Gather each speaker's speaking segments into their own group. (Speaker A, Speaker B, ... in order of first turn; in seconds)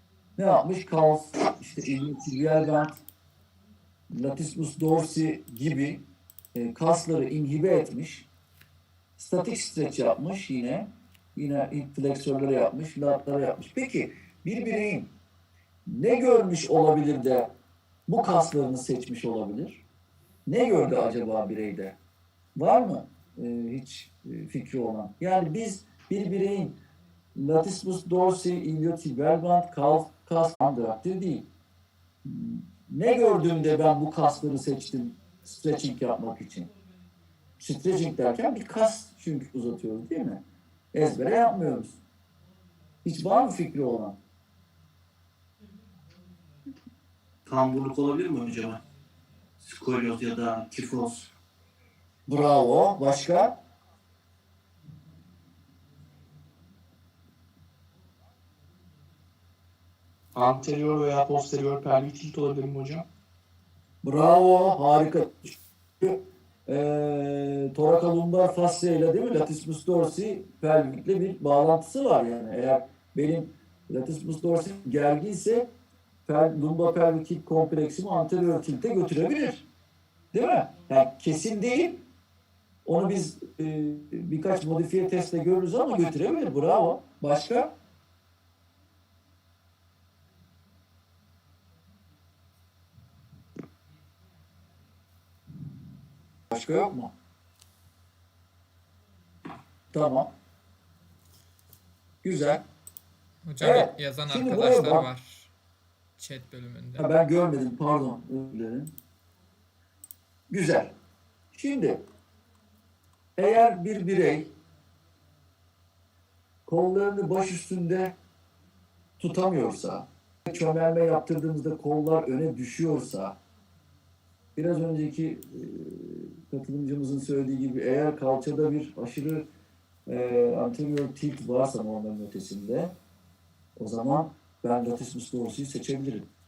Speaker A: 0.4-3.0, 4.1-6.0, 6.5-8.3, 9.2-15.1, 15.8-17.5, 18.1-19.8, 20.5-22.0, 22.6-26.8, 27.4-31.5, 32.2-36.7, 37.6-42.0, 43.0-44.2, 52.3-53.5, 64.0-75.7, 76.2-79.7, 80.3-82.0, 82.8-87.7, 96.5-97.1, 99.9-100.3, 102.2-102.6, 103.6-105.1, 107.0-108.9, 110.5-110.9, 111.5-112.0, 113.4-114.5, 116.7-118.1, 119.2-123.4, 124.5-129.4, 130.1-132.9, 133.8-136.3
Speaker B: 47.5-48.8, 49.6-51.3
Speaker C: 60.3-63.1
Speaker D: 103.5-105.5, 106.2-107.1